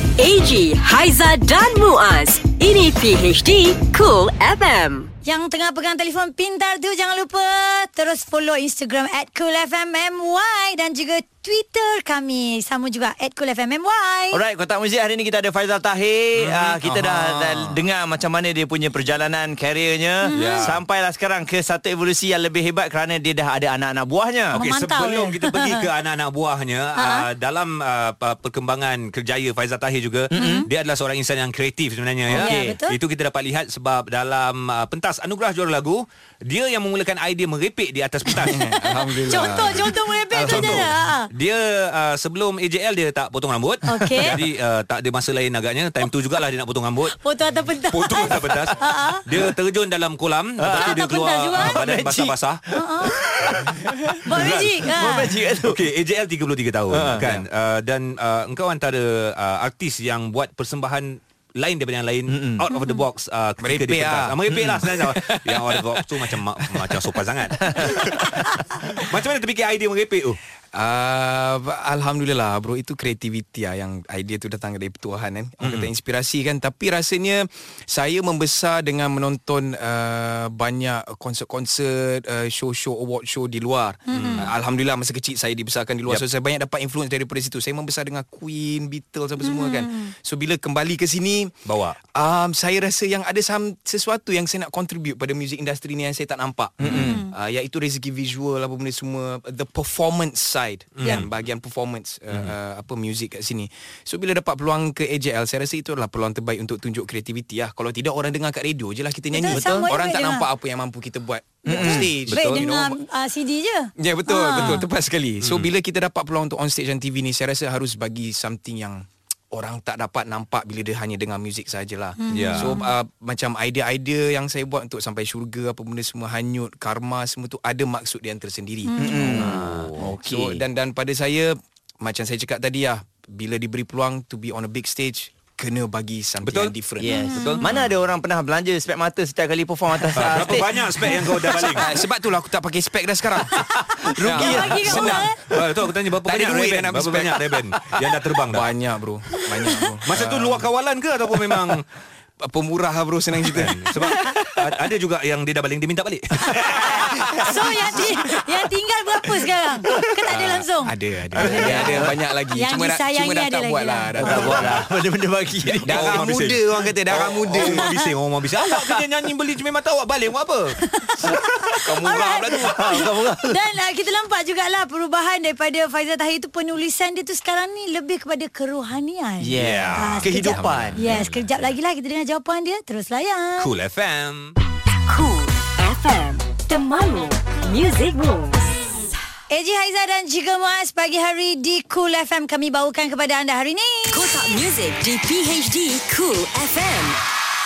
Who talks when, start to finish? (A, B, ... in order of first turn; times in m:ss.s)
0:00.2-0:05.1 A
0:05.2-0:14.4 B
0:14.3-0:24.6 C
0:16.4-0:17.4 D
0:16.9-0:17.2 E
0:20.3-0:20.7 B
0:20.3-0:20.8 D
0:24.5-0:25.8 B
0:24.6-0:38.6 D
0:27.0-0:27.2 B
0:30.3-0:30.7 C
0:30.4-0:30.7 B
0:32.3-0:32.8 C
0:32.4-0:33.0 B
0:38.3-0:38.7 B
0:38.5-0:40.9 E
0:39.3-0:41.3 B
0:40.4-0:47.2 D
0:43.9-0:44.4 B
0:47.2-0:49.2 B
0:47.9-0:52.6 D
0:50.6-0:52.4 C
0:50.7-0:51.8 B
0:52.8-0:53.1 B
0:53.3-0:53.8 D
0:53.6-0:55.8 C
0:54.3-0:55.3 B
0:54.3-0:55.0 D
0:55.6-1:08.2 D
0:56.9-0:57.2 C
0:57.2-0:57.5 E
1:02.3-1:02.6 C
1:03.6-1:07.2 E
1:07.6-1:07.9 C
1:08.9-1:10.4 D
1:10.7-1:31.5 E
1:15.6-1:15.9 D
1:24.1-1:24.5 B
1:24.1-1:24.5 D
1:29.4-1:30.1 B
1:31.7-1:32.0 D
1:32.2-1:53.0 E
1:36.8-1:37.2 C
1:36.9-1:37.3 B
1:41.0-1:41.4 D
1:49.3-1:50.4 B
1:49.5-1:49.9 C
1:51.6-1:54.7 B
1:51.7-1:52.0 C
1:52.3-1:52.6 D
1:54.0-2:17.2 E
1:55.4-1:55.7 D
2:02.2-2:02.9 B
2:02.3-2:02.7 D
2:08.9-2:09.2 B
2:09.0-2:10.6 C
2:09.2-2:10.1 D
2:16.4-2:16.7 D
2:17.0-2:21.6 C
2:17.2-2:17.6 B
2:17.4-2:17.6 D
2:20.2-2:21.9 D
2:21.3-2:25.6 E
2:24.0-2:25.2 C
2:24.3-2:25.4 B
2:24.9-2:28.7 D
2:26.2-2:30.7 E
2:30.1-2:31.8 D
2:32.4-2:34.2 E
2:33.5-2:37.5 D
2:36.4-2:37.5 C
2:37.4-2:42.0 B
2:40.3-2:44.8 E
2:41.4-2:42.0 D
2:41.5-2:42.1 C
2:42.6-2:44.5 B
2:44.2-2:44.9 D
2:44.2-2:46.4 C
2:45.7-2:50.8 D
2:45.8-2:47.9 E
2:48.6-2:49.0 C
2:50.9-3:03.7 B
2:51.8-2:53.0 E
2:52.5-2:53.6 C
2:59.4-3:01.0 C
2:59.6-3:01.6 D
3:03.6-3:04.6 D
3:05.1-3:08.6 A
3:09.5-3:14.4 B
3:14.1-3:17.2 A